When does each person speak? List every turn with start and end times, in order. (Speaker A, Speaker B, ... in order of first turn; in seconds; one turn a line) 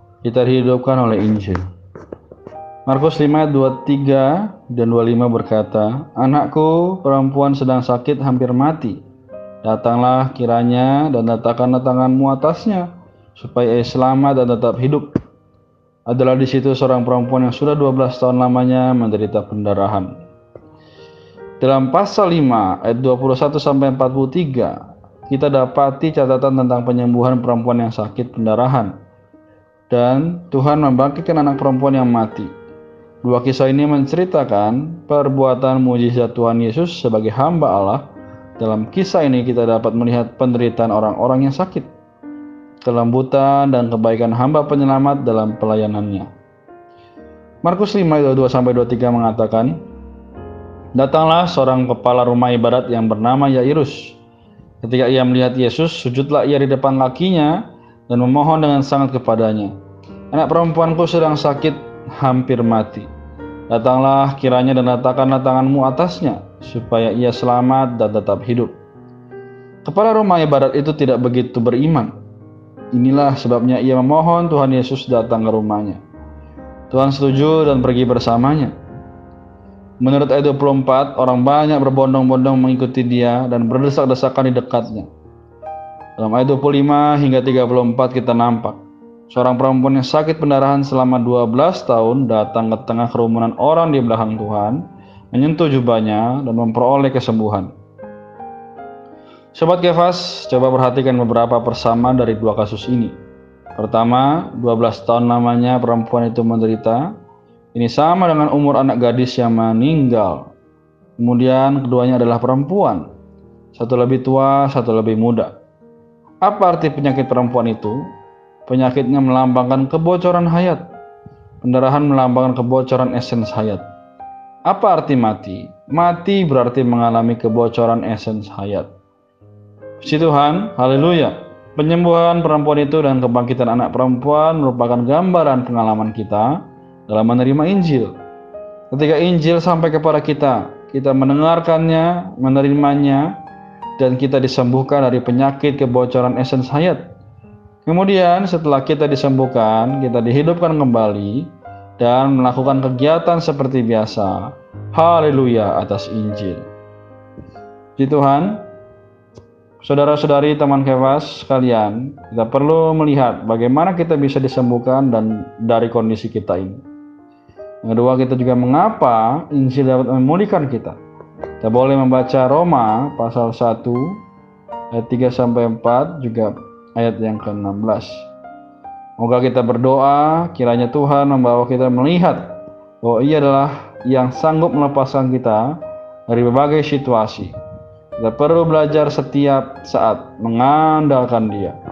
Speaker A: 0.2-1.6
Speaker A: 2.9-9.0
Speaker A: 9.6-15.1
Speaker A: 16.1-20.1
Speaker A: 21.6-28.9
Speaker A: 29.9-32.5
Speaker A: 33.2-38.0
Speaker A: 38.6-41.9
Speaker A: 42.8-46.3
Speaker A: 47.6-49.8
Speaker A: 51.0-54.1
Speaker A: 54.8-57.6
Speaker A: 58.1-59.7
Speaker A: 60.3-63.1
Speaker A: 63.7-68.7
Speaker A: 69.8-72.1
Speaker A: 72.9-76.0
Speaker A: 76.9-78.7
Speaker A: 80.0-85.1
Speaker A: 86.2-88.8
Speaker A: 89.3-97.7
Speaker A: 99.5-103.2
Speaker A: 103.8-107.1
Speaker A: 107.8-110.5
Speaker A: 111.2-113.0
Speaker A: 113.7-115.5
Speaker A: 116.5-118.0
Speaker A: 118.7-120.8
Speaker A: 121.6-123.8
Speaker A: 124.7-128.9
Speaker A: 130.0-136.5
Speaker A: 137.1-138.1
Speaker A: 138.9-143.3
Speaker A: 144.0-147.0
Speaker A: 147.8-156.7
Speaker A: 158.0-158.6
Speaker A: 159.8-166.8
Speaker A: 167.8-171.0
Speaker A: 171.6-174.2
Speaker A: 174.9-178.3
Speaker A: 179.2-185.8
Speaker A: 186.3-187.5
Speaker A: 188.2-191.8